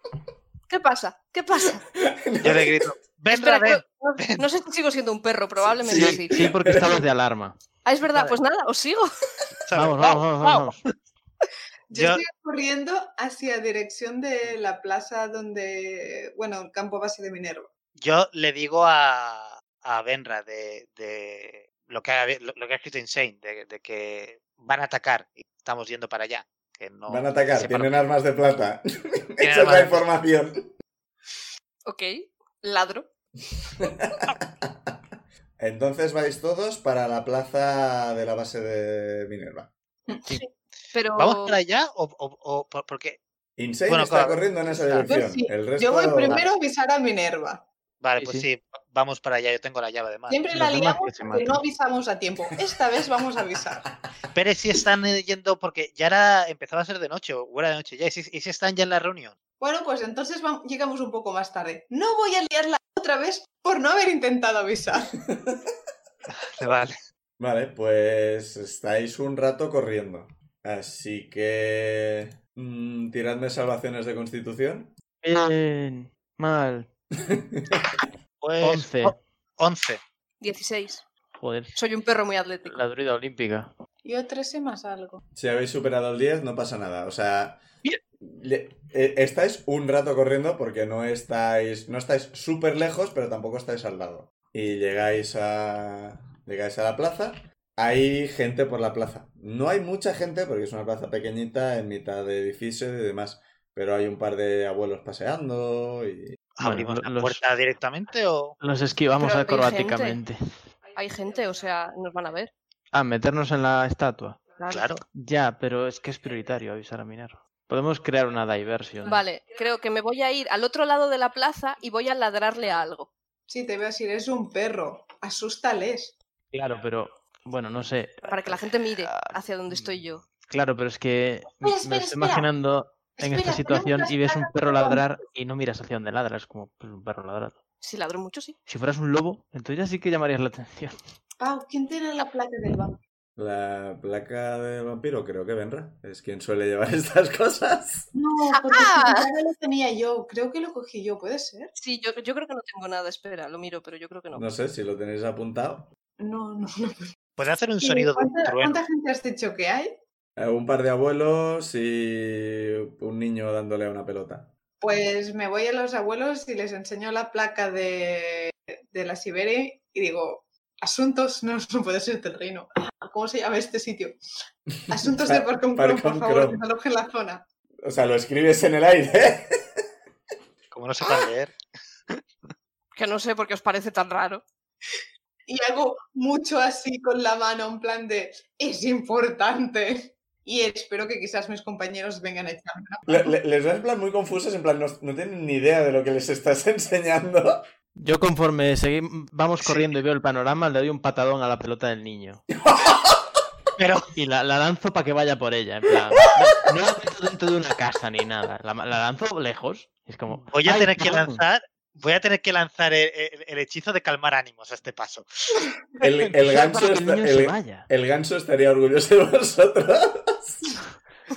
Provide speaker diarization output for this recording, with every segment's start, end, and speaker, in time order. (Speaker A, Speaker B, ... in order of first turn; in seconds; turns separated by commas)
Speaker A: 0.7-1.8, Speaker B: 1.6-2.9, Speaker C: 2.4-4.4, Speaker A: 3.3-6.5, Speaker B: 5.8-7.0, Speaker D: 5.8-7.6, Speaker A: 7.8-9.1, Speaker C: 9.7-10.7, Speaker D: 9.7-10.8, Speaker E: 11.9-17.7, Speaker C: 11.9-12.2, Speaker C: 18.0-28.0, Speaker B: 27.1-30.7, Speaker C: 29.4-30.0, Speaker A: 32.6-33.1, Speaker B: 33.8-39.7, Speaker A: 40.3-41.6, Speaker C: 41.2-43.2, Speaker B: 43.6-46.4, Speaker C: 43.9-45.1, Speaker E: 45.1-47.6, Speaker C: 48.0-50.4, Speaker D: 48.2-48.5, Speaker E: 50.3-53.9, Speaker D: 50.5-51.6, Speaker C: 54.3-59.4, Speaker E: 59.6-65.2, Speaker B: 65.3-65.6, Speaker C: 66.3-67.0, Speaker B: 67.4-74.9, Speaker D: 75.2-76.9, Speaker B: 77.3-77.9, Speaker C: 78.4-80.0, Speaker D: 78.6-79.2, Speaker A: 80.4-81.0, Speaker D: 81.4-81.7, Speaker A: 81.7-82.8, Speaker D: 82.6-83.7, Speaker E: 84.0-85.2, Speaker B: 85.3-87.6, Speaker B: 88.2-106.4, Speaker C: 106.6-108.6, Speaker D: 106.6-107.4, Speaker D: 108.6-110.4, Speaker A: 109.2-110.2, Speaker A: 110.9-112.5, Speaker D: 112.9-114.4, Speaker A: 114.6-115.0, Speaker C: 114.7-115.0, Speaker D: 115.1-119.2, Speaker A: 119.0-123.1, Speaker E: 123.5-126.1, Speaker D: 126.5-137.6, Speaker A: 128.2-130.2, Speaker E: 131.6-132.5, Speaker E: 133.2-135.0, Speaker A: 137.8-138.6, Speaker D: 138.7-141.0, Speaker E: 141.4-143.0, Speaker B: 143.3-148.1, Speaker E: 148.1-151.7, Speaker A: 148.5-149.3, Speaker A: 151.8-154.4, Speaker B: 154.3-155.9, Speaker E: 156.2-157.1, Speaker C: 157.4-158.8, Speaker E: 157.8-160.0, Speaker B: 160.4-164.5, Speaker E: 164.8-174.2, Speaker E: 174.9-177.4, Speaker B: 175.2-176.6, Speaker B: 177.8-179.5, Speaker C: 180.7-181.6, Speaker A: 182.9-184.4, Speaker E: 185.5-193.3, Speaker B: 193.1-197.6, Speaker D: 198.0-202.4, Speaker C: 199.6-199.9, Speaker B: 202.6-203.4, Speaker C: 203.8-204.1, Speaker D: 204.1-211.4, Speaker C: 210.5-215.2, Speaker B: 216.0-220.8, Speaker D: 216.5-217.9